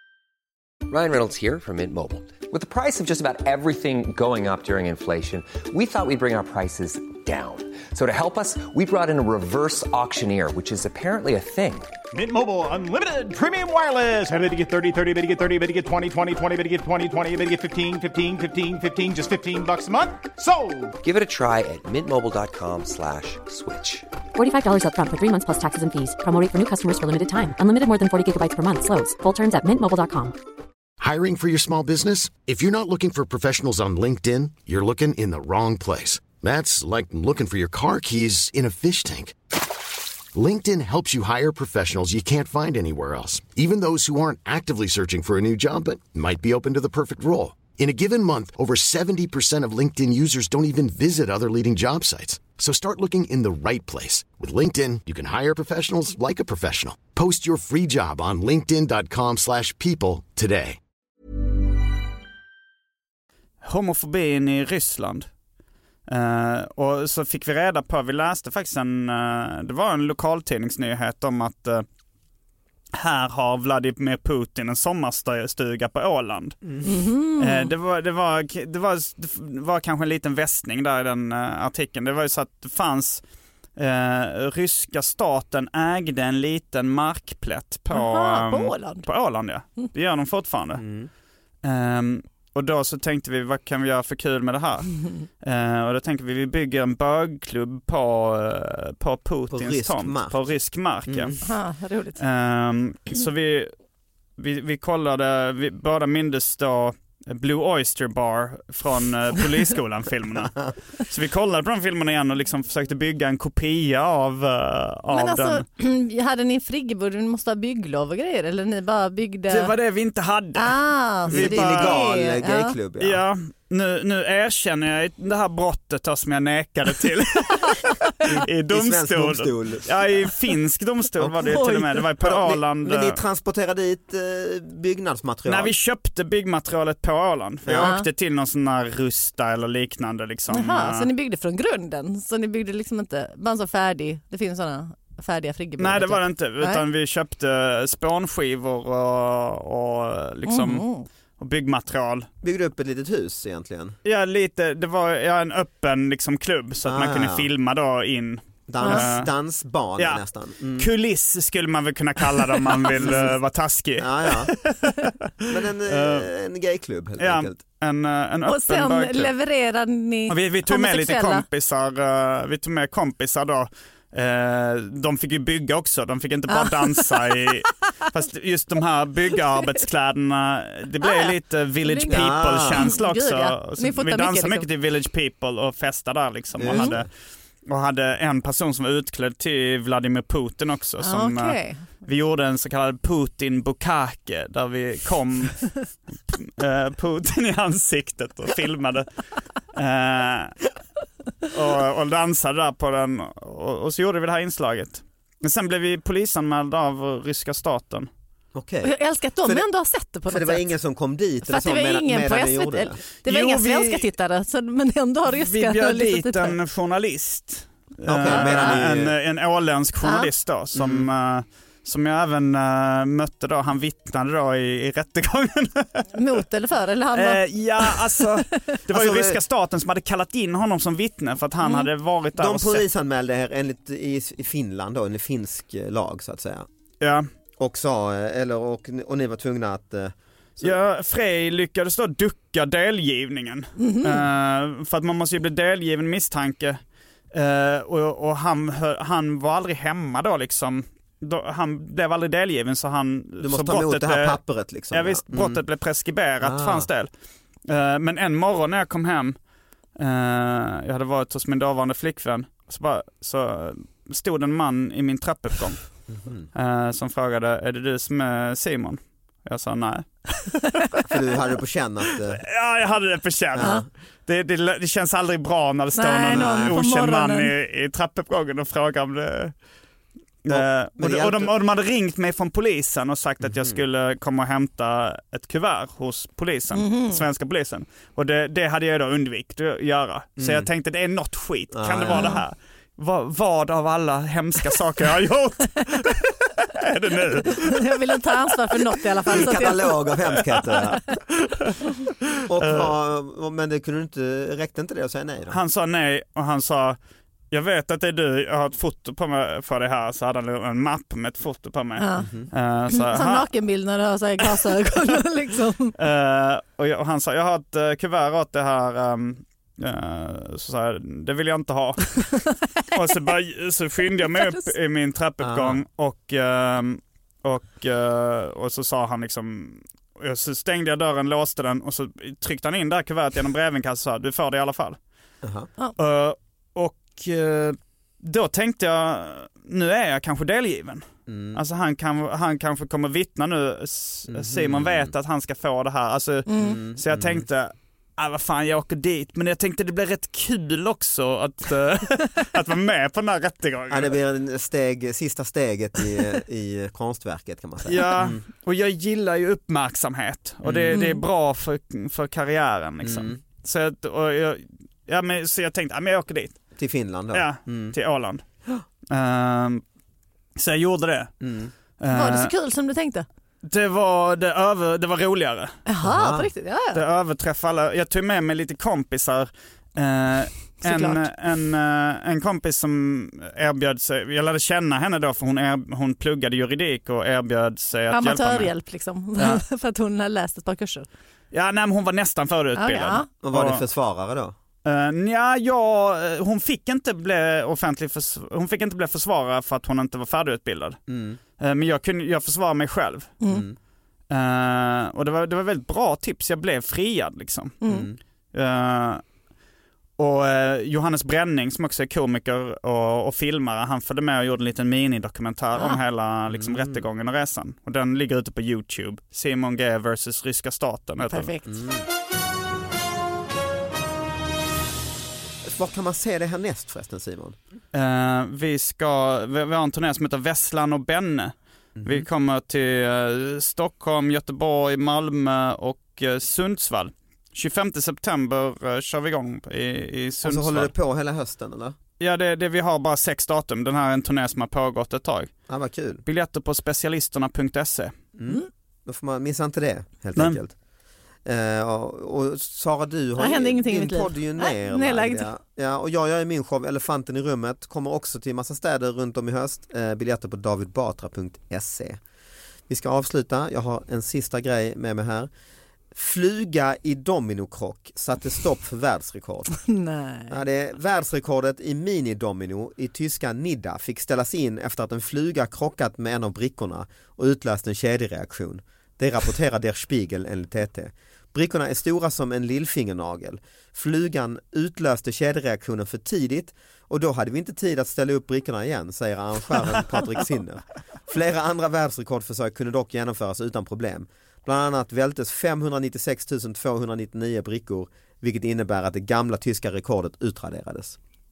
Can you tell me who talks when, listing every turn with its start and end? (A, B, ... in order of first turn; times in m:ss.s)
0:00.9-0:11.9 A
0:12.1-0:21.0 B
0:21.0-0:24.1 A
0:24.4-0:30.4 C
0:31.0-0:39.4 D
0:40.3-1:00.8 D
1:03.6-1:05.3 E
1:06.1-1:11.8 E
1:13.0-1:16.8 E
1:16.8-1:17.7 F
1:17.4-1:23.2 E
1:23.8-1:30.8 E
1:27.9-1:29.1 F
1:30.8-1:31.1 G
1:31.6-1:41.4 E
1:39.5-1:40.4 G
1:41.1-1:41.4 G
1:41.4-1:42.2 F
1:42.2-1:43.7 E
1:44.4-1:55.6 E
1:55.1-1:59.7 F
1:59.5-2:02.0 E
2:00.6-2:02.8 F
2:01.3-2:03.2 G
2:03.0-2:13.2 E
2:08.2-2:10.3 G
2:11.2-2:15.7 G
2:11.4-2:12.0 F
2:15.5-2:21.1 E
2:17.7-2:17.9 G
2:17.8-2:18.1 F
2:20.5-2:26.8 F
2:25.8-2:32.3 E
2:30.5-2:31.1 F
2:32.4-2:34.0 G
2:34.0-2:39.3 E
2:36.8-2:37.5 G
2:38.7-2:40.9 G
2:38.8-2:39.1 F
2:40.0-2:46.3 E
2:43.0-2:43.3 G
2:44.0-2:44.6 G
2:45.5-2:47.6 G
2:47.2-2:49.3 E
2:48.5-2:51.4 F
2:50.3-3:07.1 E
2:56.5-2:57.5 F
3:01.0-3:04.7 F
3:02.1-3:02.9 G
3:06.6-3:07.1 G
3:06.7-3:07.0 F
3:07.7-3:20.7 E
3:11.0-3:11.9 F
3:21.4-3:28.1 E
3:28.5-3:29.7 G
3:28.8-3:30.7 F
3:30.2-3:33.0 G
3:31.4-3:36.6 F
3:33.2-3:34.0 E
3:35.3-3:46.1 E
3:38.1-3:39.1 G
3:38.3-3:38.8 F
3:40.0-3:40.3 F
3:40.7-3:41.1 G
3:46.1-3:48.2 F
3:47.1-3:52.8 E
3:48.9-3:49.4 G
3:51.6-3:51.9 F
3:52.4-3:56.7 G
3:57.0-3:57.3 E
3:57.6-4:00.8 G
4:00.6-4:06.8 E
4:03.8-4:04.2 F
4:07.3-4:17.1 E
4:13.4-4:15.6 G
4:16.4-4:16.9 G
4:17.6-4:19.4 E
4:20.0-4:30.8 E
4:26.1-4:26.5 G
4:31.1-4:32.4 G
4:32.4-4:39.5 E
4:33.6-4:33.9 G
4:36.0-4:37.5 F
4:36.3-4:36.8 G
4:40.4-4:58.0 E
4:40.5-4:41.5 G
4:43.4-4:43.8 G
4:46.7-4:47.2 F
4:50.4-4:50.7 G
4:51.7-4:52.4 G
4:52.1-4:52.4 F
4:57.5-5:00.1 F
4:59.3-4:59.7 E
4:59.3-5:01.2 G
5:02.5-5:05.6 G
5:02.6-5:02.9 E
5:05.5-5:07.0 E
5:07.5-5:13.5 E
5:12.0-5:12.3 F
5:12.9-5:15.9 F
5:16.0-5:35.0 E
5:22.5-5:23.1 F
5:24.3-5:24.7 F
5:25.4-5:25.8 G
5:35.4-5:35.7 G
5:36.0-5:54.1 E
5:41.3-5:41.6 G
5:44.3-5:45.1 G
5:46.5-5:46.8 F
5:46.6-5:47.5 G
5:53.9-5:58.4 G
5:57.8-6:06.8 E
6:00.6-6:01.0 G
6:00.9-6:01.2 F
6:03.0-6:03.4 G
6:06.8-6:08.0 G
6:07.3-6:08.4 E
6:09.1-6:09.8 E
6:10.6-6:11.4 E
6:11.4-6:11.7 G
6:12.0-6:12.5 E
6:12.1-6:13.3 F
6:13.6-6:15.8 E
6:15.9-6:17.0 F
6:16.0-6:16.5 G
6:16.9-6:28.8 E
6:20.8-6:21.3 F
6:28.1-6:31.1 F
6:29.4-6:29.6 E
6:31.5-6:33.8 E
6:32.8-6:33.3 F
6:33.4-6:34.6 G
6:34.8-6:41.0 E
6:41.1-6:41.4 G
6:41.6-6:43.4 E
6:43.4-6:43.7 F
6:43.5-6:43.8 G
6:44.3-6:47.8 E
6:47.8-6:48.1 F
6:47.9-6:48.2 G
6:48.5-6:49.2 E
6:50.2-7:01.5 E
6:55.8-6:56.0 F
6:56.5-6:57.0 G
7:01.3-7:01.7 F
7:01.7-7:02.1 G
7:05.6-7:07.6 G
7:07.9-7:20.9 E
7:12.0-7:12.3 G
7:20.4-7:22.0 G
7:22.2-7:25.5 E
7:25.7-7:26.2 G
7:26.2-7:28.1 E
7:28.4-7:30.7 G
7:31.5-7:42.2 G
7:33.4-7:35.5 F
7:42.9-7:45.5 G
7:46.1-7:49.8 G
7:49.8-7:50.6 F
7:50.5-8:21.2 G